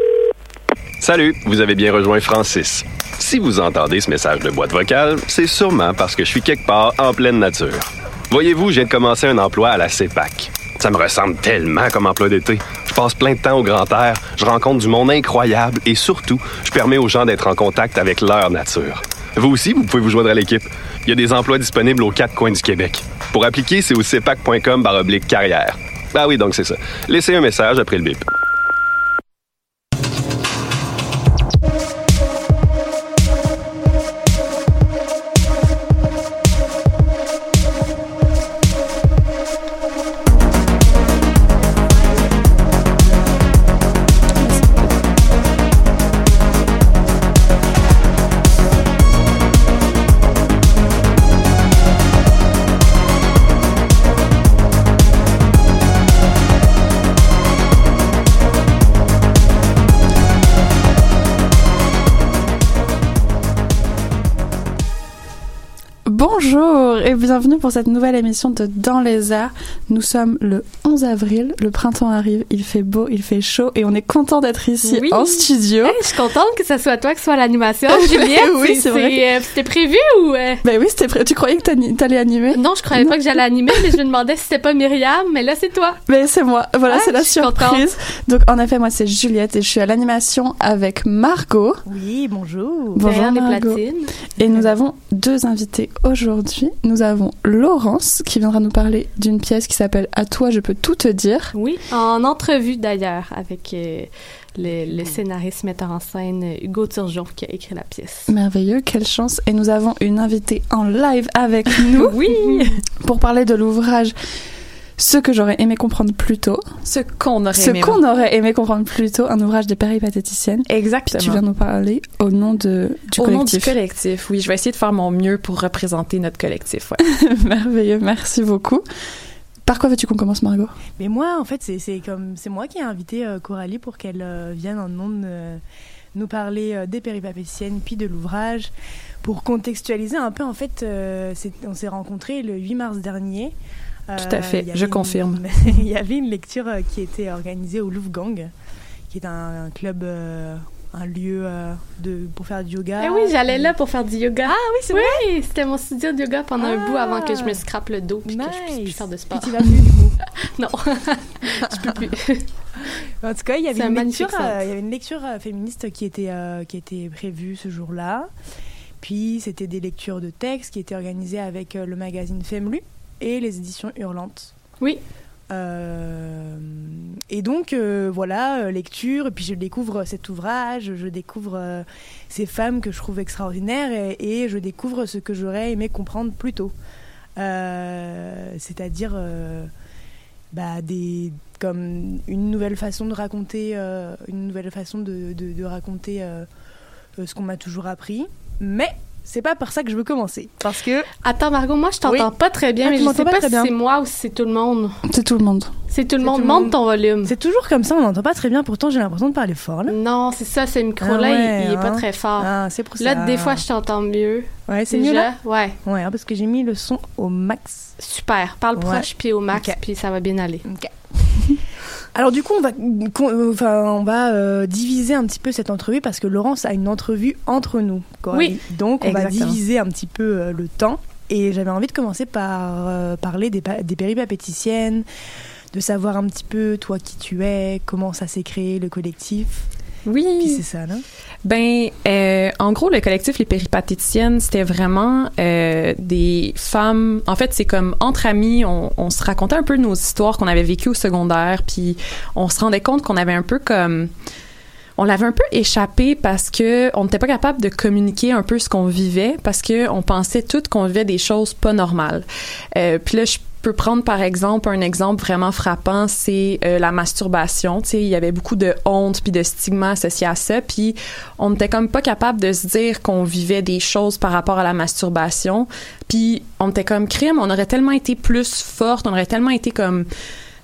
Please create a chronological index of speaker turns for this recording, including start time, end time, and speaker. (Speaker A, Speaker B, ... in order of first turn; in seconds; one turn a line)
Speaker A: 1.0-28.2
Speaker B: 44.4-45.0
Speaker B: 66.1-76.0
Speaker C: 74.8-80.6
Speaker B: 77.9-79.2
Speaker B: 80.6-83.2
Speaker C: 82.5-86.0
Speaker B: 86.1-91.8
Speaker C: 86.9-87.8
Speaker D: 91.9-93.0
Speaker B: 92.9-93.8
Speaker C: 93.0-94.1
Speaker B: 94.4-101.5
Speaker D: 94.4-94.7
Speaker C: 101.5-108.3
Speaker D: 104.9-105.2
Speaker B: 108.3-112.2
Speaker E: 111.9-112.7
Speaker C: 112.3-112.5
Speaker B: 113.0-114.2
Speaker B: 115.0-116.6
Speaker E: 116.8-118.0
Speaker B: 117.5-123.8
Speaker E: 120.7-121.4
Speaker E: 123.2-127.0
Speaker B: 127.0-128.8
Speaker B: 129.7-130.7
Speaker D: 131.0-135.6
Speaker D: 136.2-138.7
Speaker D: 139.2-143.5
Speaker D: 144.1-148.5
Speaker E: 144.2-145.4
Speaker D: 149.1-153.7
Speaker C: 153.0-159.8
Speaker D: 154.5-155.2
Speaker D: 156.6-157.6
Speaker D: 158.3-160.2
Speaker C: 160.5-162.5
Speaker D: 161.7-162.1
Speaker D: 163.2-168.3
Speaker C: 163.7-164.6
Speaker D: 169.0-174.5
Speaker D: 175.5-186.7
Speaker D: 187.4-189.7
Speaker D: 190.5-196.5
Speaker D: 197.2-201.1
Speaker C: 201.2-205.0
Speaker D: 202.8-203.7
Speaker B: 205.1-205.7
Speaker C: 205.9-207.3
Speaker D: 206.2-210.0
Speaker C: 209.9-215.8
Speaker D: 211.0-213.6
Speaker D: 214.7-215.3
Speaker D: 215.8-217.9
Speaker C: 218.0-220.6
Speaker D: 218.8-219.8
Speaker D: 220.7-221.5
Speaker D: 222.2-235.1
Speaker C: 228.3-228.6
Speaker E: 229.0-229.6
Speaker D: 235.7-239.7
Speaker E: 240.1-240.6
Speaker D: 240.4-241.0
Speaker E: 241.4-254.1
Speaker E: 255.0-280.1